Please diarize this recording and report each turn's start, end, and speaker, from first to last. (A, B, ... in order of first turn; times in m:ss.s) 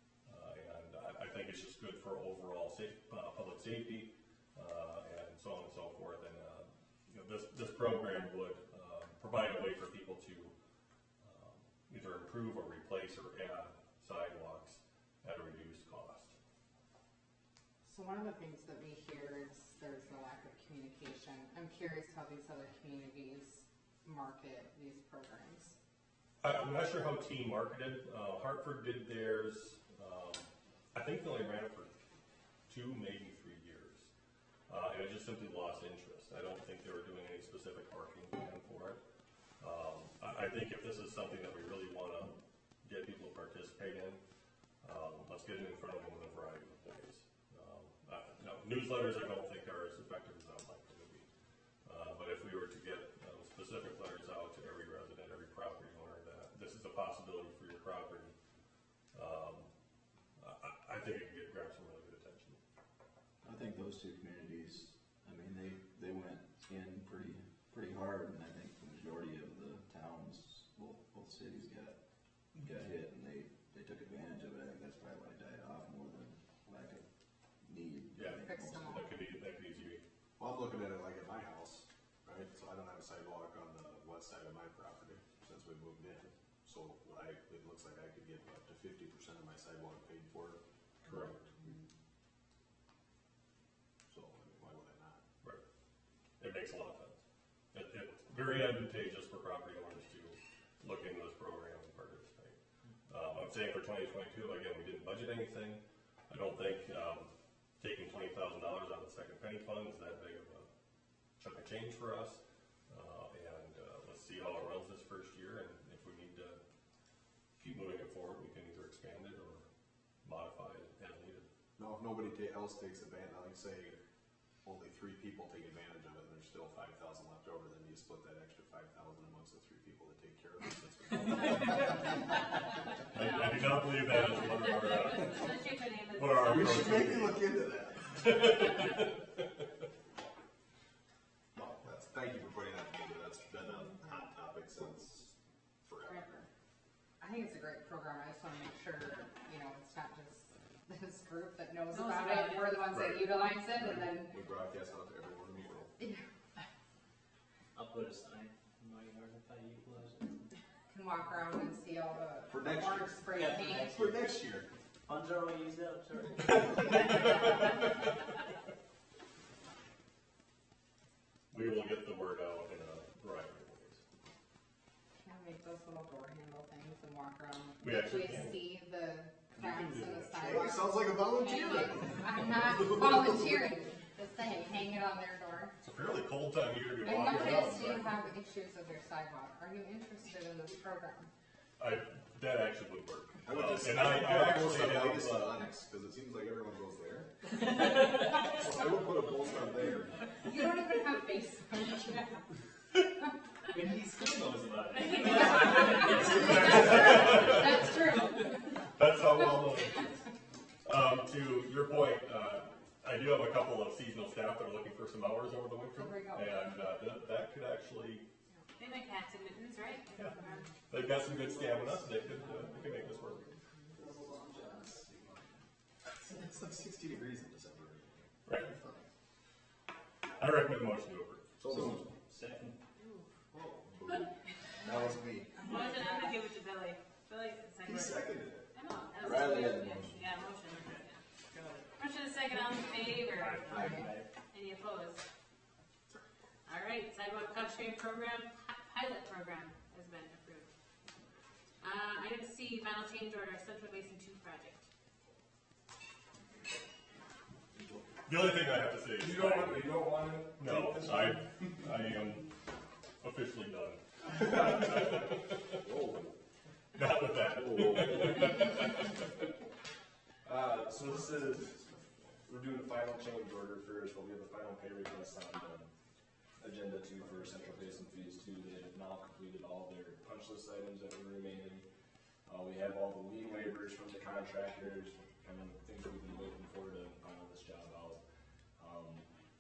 0:00.3-0:10.5 A
0:11.2-0:16.4 A
0:17.8-0:25.8 B
0:26.4-0:32.0 A
0:32.7-0:34.1 A
0:34.7-0:39.0 A
0:39.6-0:44.2 A
0:44.8-0:51.3 A
0:51.8-0:58.3 A
0:59.1-0:59.7 A
1:00.4-1:02.6 A
1:03.4-1:12.0 C
1:12.6-1:17.0 C
1:17.6-1:19.1 C
1:18.1-1:20.0 A
1:18.4-1:19.2 B
1:20.4-1:31.3 D
1:31.1-1:31.3 A
1:34.1-1:35.2 D
1:36.4-1:37.2 A
1:37.7-1:42.6 A
1:43.1-1:50.7 A
1:51.4-1:56.6 A
1:57.6-1:59.6 A
2:00.2-2:01.5 A
2:01.8-2:04.0 D
2:04.6-2:12.1 D
2:13.1-2:15.5 A
2:14.9-2:17.0 E
2:16.2-2:17.5 A
2:16.4-2:18.5 D
2:18.1-2:19.2 A
2:21.6-2:26.5 D
2:27.2-2:34.4 B
2:31.9-2:32.8 E
2:33.8-2:35.9 D
2:37.8-2:40.5 F
2:40.9-2:44.0 B
2:42.5-2:43.3 D
2:43.3-2:44.1 F
2:43.8-2:44.7 D
2:45.1-2:47.2 F
2:51.5-2:54.0 A
2:55.2-3:05.7 B
2:57.8-2:58.7 A
2:59.6-3:03.7 D
3:05.8-3:08.1 A
3:07.0-3:11.3 B
3:07.3-3:07.8 D
3:11.8-3:15.6 A
3:13.4-3:20.2 D
3:20.4-3:22.4 B
3:23.7-3:26.3 F
3:25.0-3:26.6 E
3:26.3-3:27.6 D
3:26.3-3:27.8 A
3:26.5-3:28.5 B
3:28.9-3:30.1 A
3:30.8-3:38.2 A
3:35.9-3:36.6 B
3:38.8-3:40.7 E
3:40.9-3:43.5 A
3:46.2-3:49.0 D
3:50.4-3:51.5 A
3:51.6-3:52.0 D
3:51.7-3:52.8 C
3:53.5-3:54.3 D
3:54.8-3:55.5 D
3:55.6-4:01.2 E
3:57.8-3:58.7 D
3:59.2-4:00.2 C
4:01.5-4:01.8 F
4:02.0-4:05.2 E
4:03.3-4:04.3 F
4:06.7-4:10.7 E
4:11.8-4:14.8 E
4:18.3-4:22.5 A
4:19.2-4:21.4 D
4:23.2-4:25.8 A
4:24.4-4:25.1 D
4:25.8-4:26.3 D
4:26.9-4:29.0 A
4:27.5-4:28.6 D
4:30.4-4:31.6 G
4:30.6-4:32.4 D
4:32.4-4:35.9 G
4:36.6-4:41.8 G
4:42.5-4:48.2 G
4:48.8-4:49.2 G